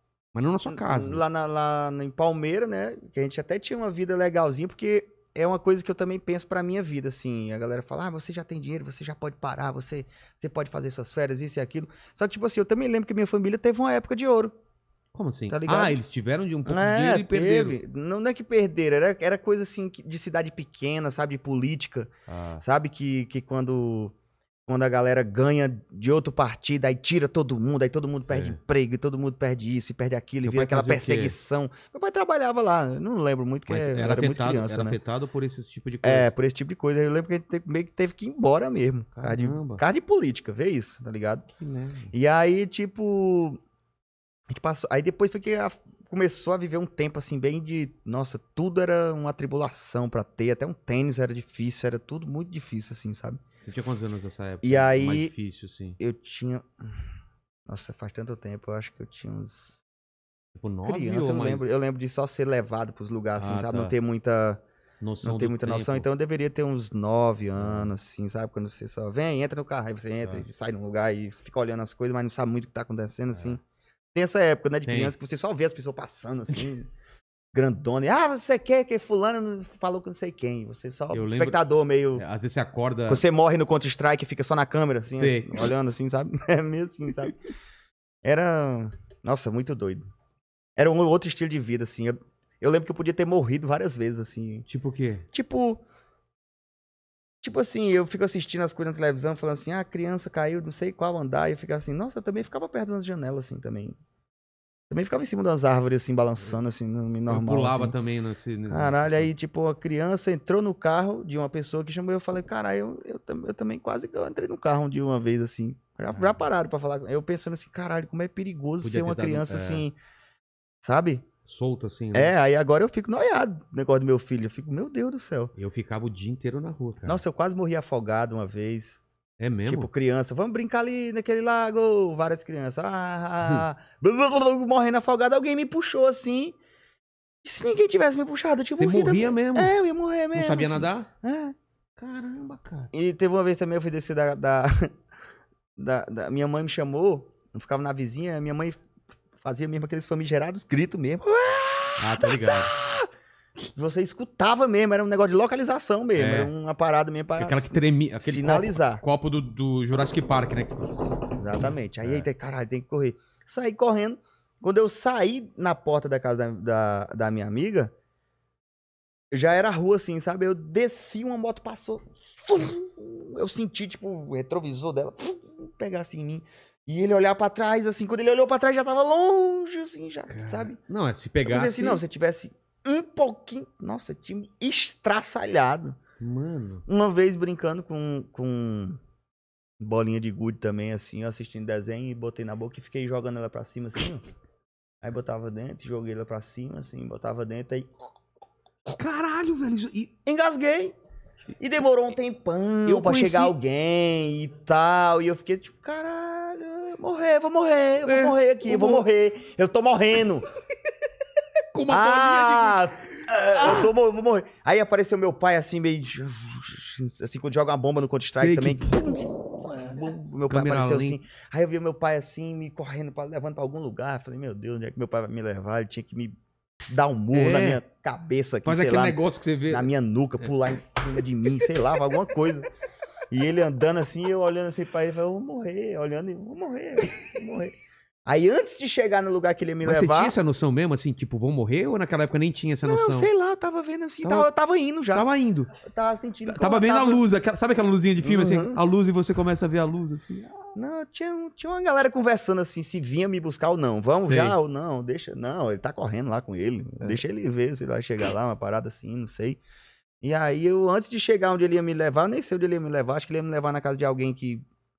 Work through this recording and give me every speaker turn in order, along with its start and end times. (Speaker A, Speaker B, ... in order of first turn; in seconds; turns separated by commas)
Speaker A: 0.3-1.2, Speaker B: 0.7-14.5, Speaker A: 15.1-17.8, Speaker B: 15.5-16.0, Speaker B: 16.6-24.1, Speaker A: 22.3-22.6, Speaker B: 24.7-35.0, Speaker A: 28.2-28.6, Speaker A: 30.4-31.3, Speaker A: 33.7-36.3, Speaker B: 36.0-41.5, Speaker A: 39.1-39.8, Speaker A: 41.6-42.1, Speaker B: 42.1-43.6, Speaker B: 44.5-53.4, Speaker A: 53.6-56.0, Speaker B: 54.6-55.3, Speaker B: 56.0-56.7, Speaker B: 57.7-59.6, Speaker A: 60.5-61.6, Speaker B: 60.8-64.6, Speaker A: 63.4-63.9, Speaker A: 65.0-66.0, Speaker B: 65.2-73.6, Speaker A: 67.5-67.9, Speaker B: 74.1-76.9, Speaker A: 74.8-75.1, Speaker B: 77.5-82.2, Speaker A: 81.1-81.6, Speaker A: 82.1-83.2, Speaker B: 83.1-87.3, Speaker A: 85.1-85.7, Speaker B: 88.2-90.0, Speaker B: 90.8-94.7, Speaker A: 94.7-95.2, Speaker B: 95.3-95.8, Speaker B: 97.4-104.0, Speaker B: 104.9-107.9, Speaker A: 107.3-109.3, Speaker B: 108.7-119.9, Speaker A: 116.1-116.4, Speaker A: 118.8-119.8, Speaker B: 120.8-121.2, Speaker A: 121.4-122.3, Speaker B: 122.1-125.5, Speaker A: 125.5-127.2, Speaker B: 127.1-129.0, Speaker A: 129.4-129.9, Speaker B: 129.7-136.6, Speaker B: 137.4-141.5, Speaker A: 138.7-139.7, Speaker A: 140.3-141.1, Speaker A: 142.0-142.9, Speaker B: 142.9-144.9, Speaker B: 145.8-148.8, Speaker B: 149.4-153.1, Speaker A: 152.0-152.7, Speaker B: 153.8-159.0, Speaker A: 156.1-156.5, Speaker A: 157.4-162.3, Speaker B: 161.4-167.9, Speaker B: 169.3-180.8, Speaker A: 180.3-182.0, Speaker B: 181.4-186.0, Speaker A: 186.2-186.8, Speaker B: 186.9-189.0, Speaker B: 189.8-194.2, Speaker B: 195.0-197.9, Speaker A: 198.9-200.1, Speaker B: 200.2-200.9, Speaker B: 201.6-210.5, Speaker A: 202.8-203.5, Speaker A: 208.1-209.0, Speaker A: 211.7-213.9, Speaker B: 211.9-226.3, Speaker A: 218.3-221.2, Speaker B: 226.9-232.7, Speaker A: 227.3-227.8, Speaker A: 228.6-230.5, Speaker A: 231.2-231.6, Speaker B: 233.3-237.7, Speaker B: 238.2-240.4, Speaker A: 239.8-243.3, Speaker B: 242.8-245.3, Speaker A: 244.2-244.5, Speaker A: 245.1-245.7, Speaker B: 245.8-247.2, Speaker A: 246.4-250.7, Speaker B: 248.2-248.8, Speaker B: 250.7-259.6, Speaker A: 254.2-254.6, Speaker B: 260.2-264.6